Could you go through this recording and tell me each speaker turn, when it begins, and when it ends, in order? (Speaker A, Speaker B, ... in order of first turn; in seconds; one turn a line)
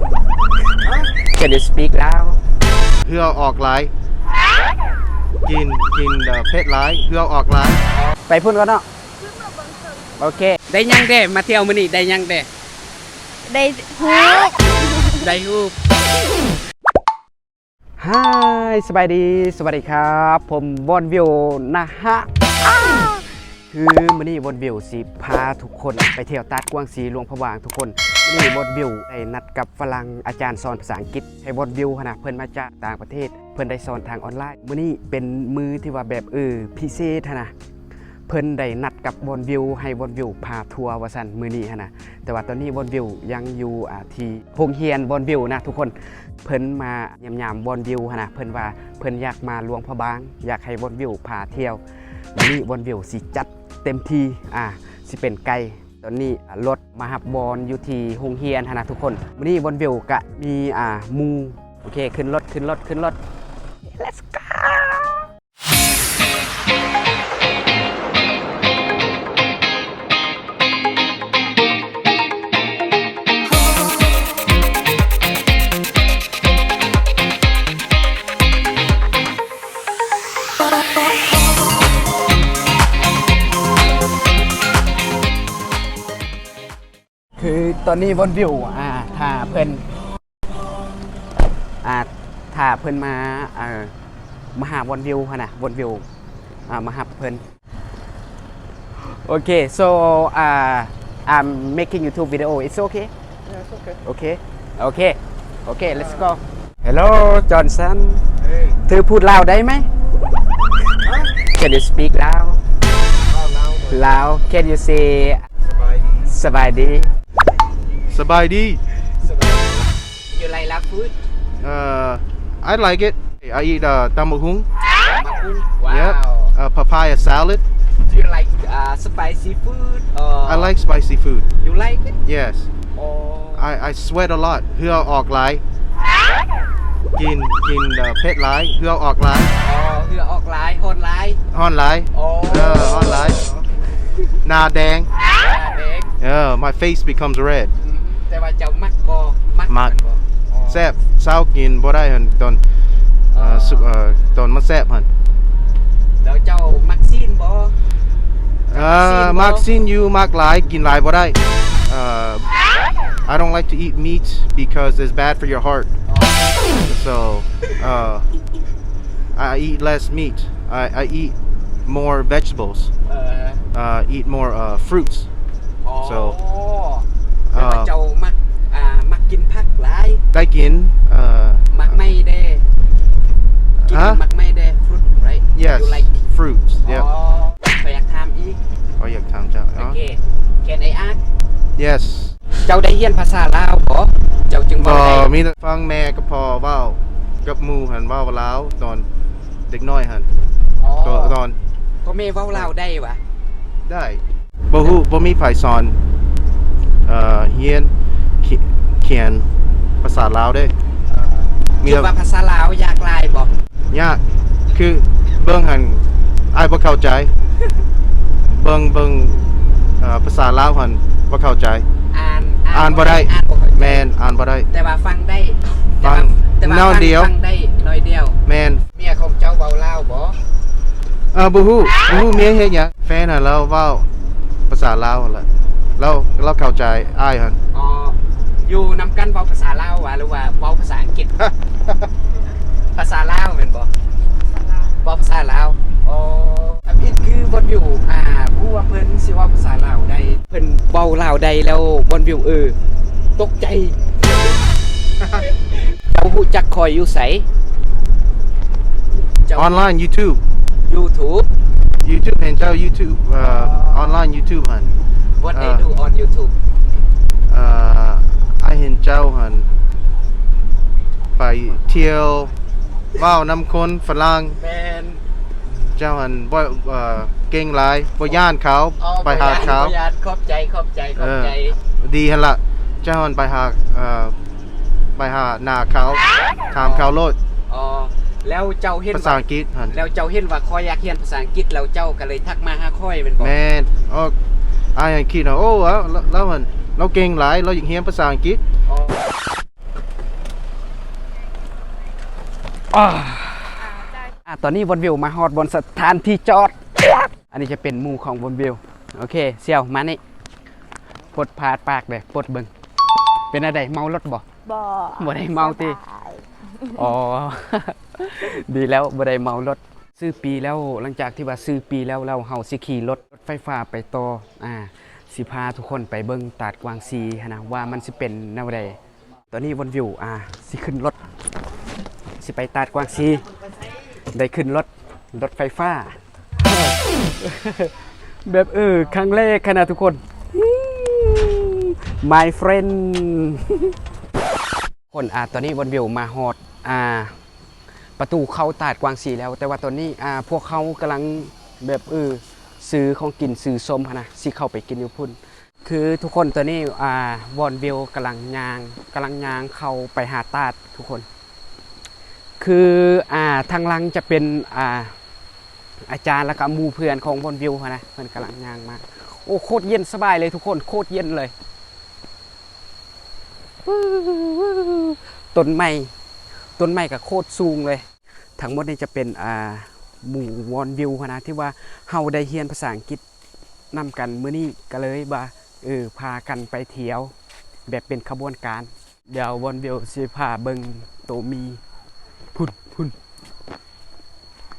Speaker A: 0.8-2.4
Speaker B: 3.0-3.9
Speaker B: 5.5-7.8
Speaker A: 7.9-8.8
Speaker C: 9.3-9.8
Speaker A: 10.2-12.5
Speaker C: 13.5-15.3
Speaker A: 15.2-15.8
Speaker A: 18.0-37.5
Speaker A: 38.3-51.8
Speaker A: 52.4-63.2
Speaker A: 63.9-65.2
Speaker A: 87.4-89.8
Speaker A: 91.8-93.9
Speaker A: 94.5-96.0
Speaker A: 96.7-97.4
Speaker A: 99.0-103.1
Speaker A: 104.0-109.9
Speaker A: 111.1-112.6
Speaker A: 113.8-115.5
Speaker A: 116.1-117.1
Speaker B: 118.1-118.8
Speaker A: 119.2-121.2
Speaker B: 121.6-124.7
Speaker A: 125.0-126.5
Speaker B: 125.9-127.6
Speaker A: 128.1-130.7
Speaker B: 130.4-131.5
Speaker A: 131.6-132.2
Speaker B: 132.2-132.7
Speaker A: 133.0-133.7
Speaker B: 133.6-135.6
Speaker B: 137.2-139.6
Speaker A: 139.6-141.4
Speaker B: 141.5-143.5
Speaker A: 142.1-143.6
Speaker B: 144.4-145.1
Speaker A: 145.2-146.1
Speaker B: 146.2-147.8
Speaker A: 147.8-150.9
Speaker B: 149.7-149.9
Speaker B: 150.7-152.6
Speaker A: 153.3-153.9
Speaker B: 153.3-155.1
Speaker A: 156.2-157.8
Speaker B: 158.7-162.5
Speaker A: 158.7-159.7
Speaker B: 163.3-165.9
Speaker A: 166.1-166.8
Speaker B: 166.8-168.3
Speaker B: 169.3-172.9
Speaker A: 173.1-173.6
Speaker B: 173.7-175.3
Speaker A: 175.8-180.2
Speaker B: 176.0-176.4
Speaker B: 177.5-177.9
Speaker B: 180.3-182.1
Speaker A: 181.7-182.7
Speaker B: 183.9-184.2
Speaker A: 183.9-186.2
Speaker B: 185.5-187.1
Speaker A: 186.9-188.6
Speaker B: 189.0-190.0
Speaker A: 189.8-191.2
Speaker B: 191.8-192.4
Speaker A: 192.7-195.4
Speaker B: 194.8-199.1
Speaker B: 199.7-200.3
Speaker A: 200.8-201.4
Speaker B: 201.0-201.6
Speaker A: 202.0-203.2
Speaker B: 203.9-206.0
Speaker B: 207.1-209.5
Speaker B: 210.0-210.7
Speaker A: 211.8-213.5
Speaker B: 211.8-212.2
Speaker B: 213.9-214.2
Speaker B: 214.7-217.3
Speaker B: 218.5-221.9
Speaker A: 222.1-224.1
Speaker B: 222.7-224.7
Speaker A: 224.7-228.4
Speaker B: 226.0-227.3
Speaker B: 228.5-228.8
Speaker A: 228.9-230.4
Speaker B: 231.3-234.1
Speaker A: 232.0-232.4
Speaker B: 234.7-237.6
Speaker A: 237.7-241.3
Speaker A: 242.9-243.9
Speaker A: 244.9-252.8
Speaker A: 253.4-254.6
Speaker A: 255.3-257.5
Speaker A: 259.4-259.8
Speaker B: 259.5-260.4
Speaker A: 260.9-261.5
Speaker B: 262.0-264.9
Speaker A: 263.4-264.3
Speaker A: 265.4-266.5
Speaker B: 265.5-265.9
Speaker B: 267.5-269.7
Speaker B: 271.4-272.5
Speaker B: 273.1-274.6
Speaker A: 274.6-275.2
Speaker B: 275.9-279.9
Speaker A: 279.0-281.8
Speaker B: 281.2-284.4
Speaker B: 285.2-287.4
Speaker A: 286.8-287.1
Speaker A: 287.7-293.6
Speaker B: 289.1-290.0
Speaker B: 293.4-294.4
Speaker B: 294.9-298.6
Speaker A: 298.9-299.3
Speaker A: 302.9-303.9
Speaker A: 304.4-310.2
Speaker A: 311.3-312.7
Speaker A: 313.5-314.5
Speaker C: 314.7-317.0
Speaker A: 315.2-316.0
Speaker A: 316.9-329.0
Speaker A: 329.5-331.2
Speaker A: 332.4-333.4
Speaker A: 334.3-337.9
Speaker A: 338.5-343.9
Speaker A: 345.1-347.4
Speaker A: 348.2-361.3
Speaker A: 362.6-365.1
Speaker A: 366.1-371.5
Speaker A: 373.9-376.1
Speaker A: 376.8-378.1
Speaker A: 378.6-383.2
Speaker A: 383.9-387.3
Speaker A: 387.9-391.8
Speaker A: 392.5-393.2